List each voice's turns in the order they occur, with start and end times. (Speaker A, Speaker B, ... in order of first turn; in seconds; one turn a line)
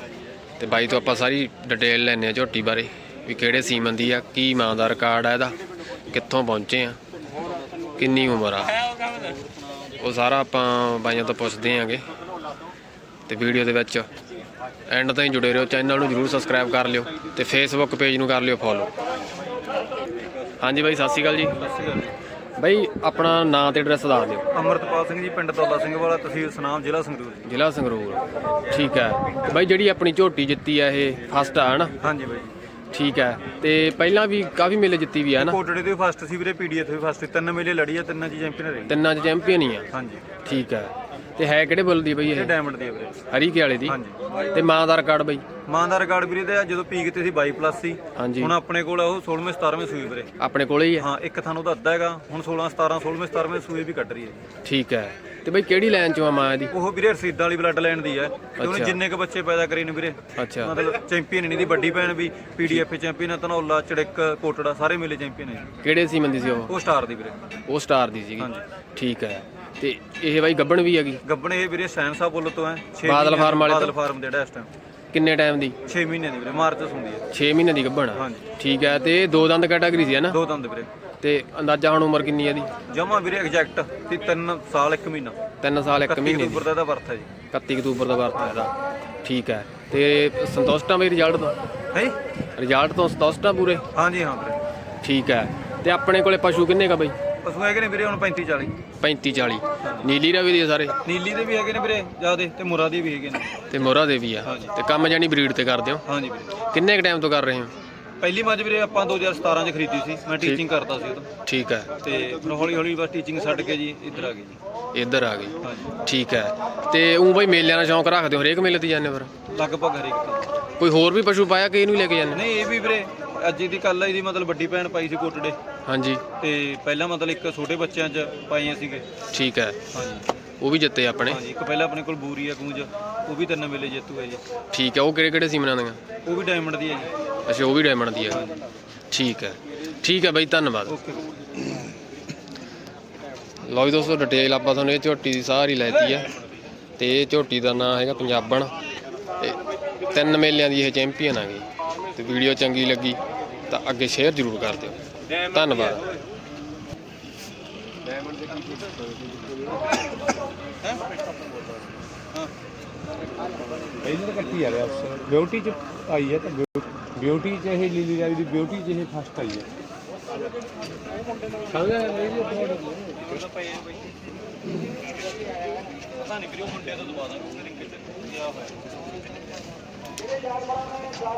Speaker A: 0.6-5.6
Speaker A: 6.1-7.0
Speaker A: 8.0-8.8
Speaker A: 10.0-12.0
Speaker A: 13.3-14.1
Speaker A: 14.9-18.9
Speaker A: 20.6-21.6
Speaker B: 21.6-22.1
Speaker A: 22.6-24.5
Speaker B: 24.5-27.5
Speaker A: 27.4-31.9
Speaker B: 32.0-32.5
Speaker A: 32.9-35.6
Speaker B: 35.4-38.9
Speaker A: 38.9-39.9
Speaker B: 39.9-40.2
Speaker A: 40.4-42.5
Speaker B: 42.3-43.2
Speaker A: 43.3-44.0
Speaker B: 43.9-44.2
Speaker A: 44.5-45.4
Speaker B: 45.7-50.3
Speaker A: 48.1-48.5
Speaker A: 50.4-51.0
Speaker B: 51.0-54.4
Speaker A: 54.6-56.7
Speaker B: 56.7-65.7
Speaker A: 58.6-59.0
Speaker A: 60.4-60.7
Speaker A: 65.8-66.7
Speaker B: 66.7-67.4
Speaker A: 67.7-71.2
Speaker B: 68.4-68.6
Speaker B: 71.2-74.7
Speaker A: 73.0-73.9
Speaker A: 75.1-75.8
Speaker B: 75.9-77.2
Speaker A: 77.3-80.4
Speaker B: 78.1-78.5
Speaker B: 80.3-80.9
Speaker A: 81.2-82.7
Speaker B: 82.9-85.4
Speaker A: 85.6-86.7
Speaker B: 86.0-87.3
Speaker A: 87.5-88.7
Speaker A: 89.2-91.5
Speaker A: 92.6-93.8
Speaker B: 93.9-94.6
Speaker A: 95.0-97.1
Speaker B: 97.4-98.8
Speaker A: 99.0-101.0
Speaker B: 99.8-100.1
Speaker B: 101.0-103.6
Speaker A: 103.7-106.0
Speaker B: 104.4-104.7
Speaker B: 106.0-106.5
Speaker A: 106.7-107.7
Speaker B: 108.2-111.3
Speaker A: 111.5-111.9
Speaker B: 112.0-114.6
Speaker A: 114.9-119.3
Speaker B: 115.6-115.9
Speaker B: 119.5-120.5
Speaker A: 120.8-122.4
Speaker B: 122.3-125.6
Speaker A: 125.9-126.2
Speaker B: 126.4-129.1
Speaker A: 129.3-129.8
Speaker B: 129.9-130.2
Speaker A: 130.6-131.4
Speaker B: 131.2-134.4
Speaker A: 134.7-136.0
Speaker B: 136.2-137.1
Speaker A: 137.5-138.4
Speaker B: 138.3-138.6
Speaker A: 139.1-140.9
Speaker B: 140.9-141.3
Speaker A: 143.7-146.3
Speaker A: 147.0-148.7
Speaker A: 150.1-156.0
Speaker C: 164.0-169.7
Speaker B: 165.3-165.6
Speaker C: 171.7-173.0
Speaker B: 176.1-178.7